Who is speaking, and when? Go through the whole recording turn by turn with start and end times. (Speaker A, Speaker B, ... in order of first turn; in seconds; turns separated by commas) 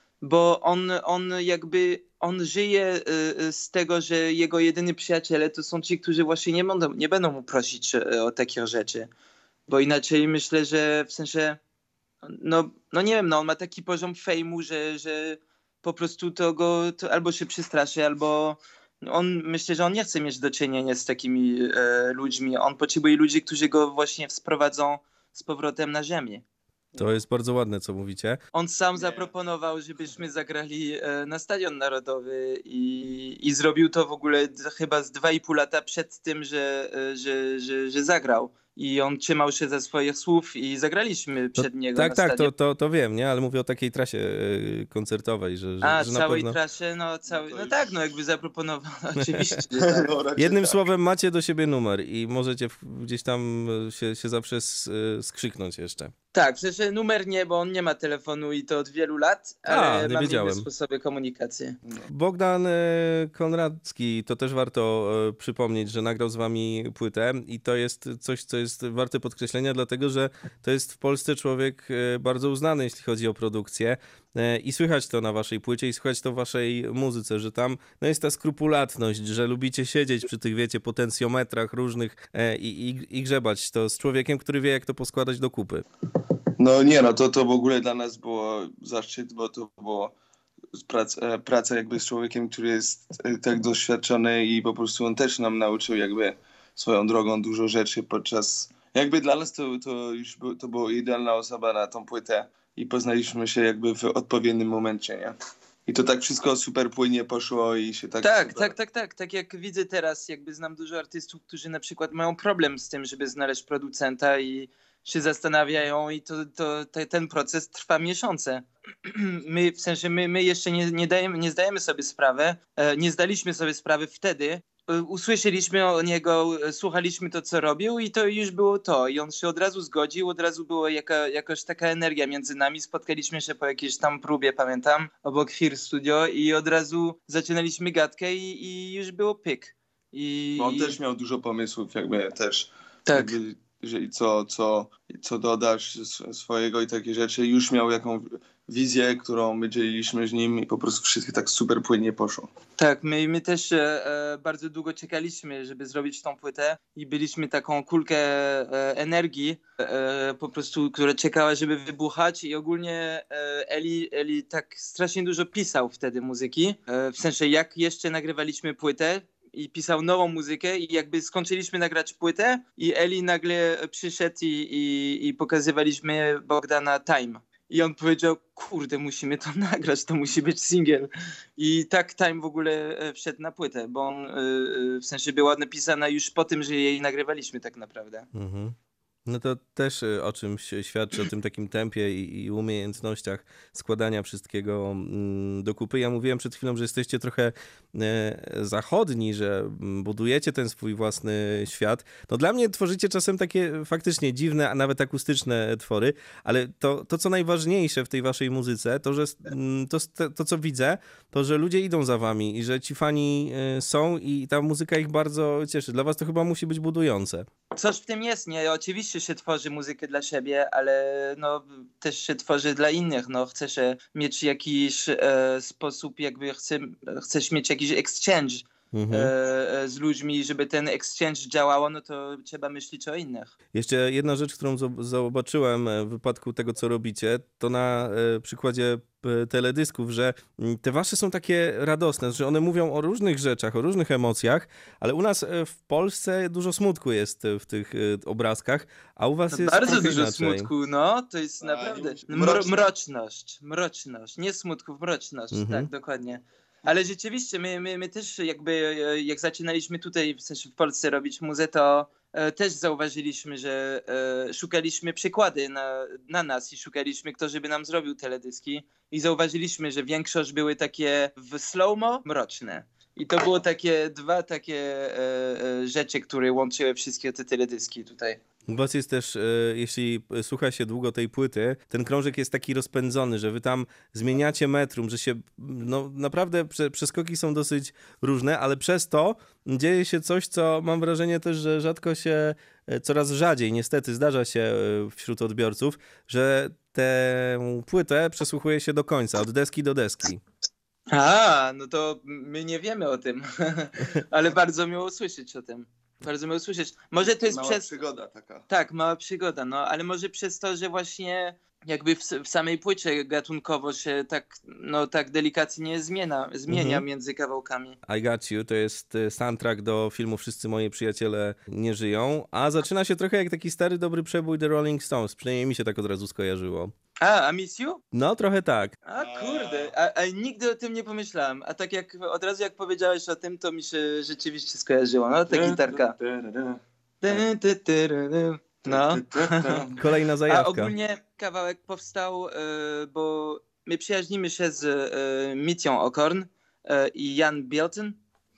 Speaker A: 0.2-9.1, Speaker A: 9.7-11.6, Speaker A: 12.2-26.4, Speaker B: 27.0-28.4, Speaker A: 28.5-42.5, Speaker C: 29.0-29.3, Speaker B: 41.5-46.6, Speaker A: 45.8-50.1, Speaker C: 47.3-47.9, Speaker C: 49.8-50.8, Speaker B: 50.4-56.1, Speaker A: 56.3-61.8, Speaker B: 59.7-60.7, Speaker B: 62.1-85.8, Speaker C: 86.6-90.1, Speaker C: 90.7-105.3, Speaker C: 105.9-108.7, Speaker A: 108.2-141.0, Speaker C: 140.6-152.5, Speaker A: 143.1-143.3, Speaker A: 152.8-188.3, Speaker B: 188.3-188.8, Speaker B: 189.3-217.5, Speaker A: 217.8-233.5, Speaker B: 228.9-229.3, Speaker B: 233.7-250.7, Speaker A: 249.5-278.4, Speaker C: 251.6-252.9, Speaker B: 255.5-255.9, Speaker B: 278.7-300.4, Speaker A: 301.1-307.9, Speaker C: 307.5-308.6, Speaker A: 308.7-318.0, Speaker B: 316.7-317.0, Speaker B: 318.1-326.9, Speaker A: 327.2-328.0, Speaker B: 328.1-328.9, Speaker A: 329.1-336.2, Speaker C: 329.1-329.9, Speaker C: 335.5-337.4, Speaker A: 337.2-339.9, Speaker C: 338.9-340.0, Speaker B: 340.0-340.9, Speaker A: 340.5-348.2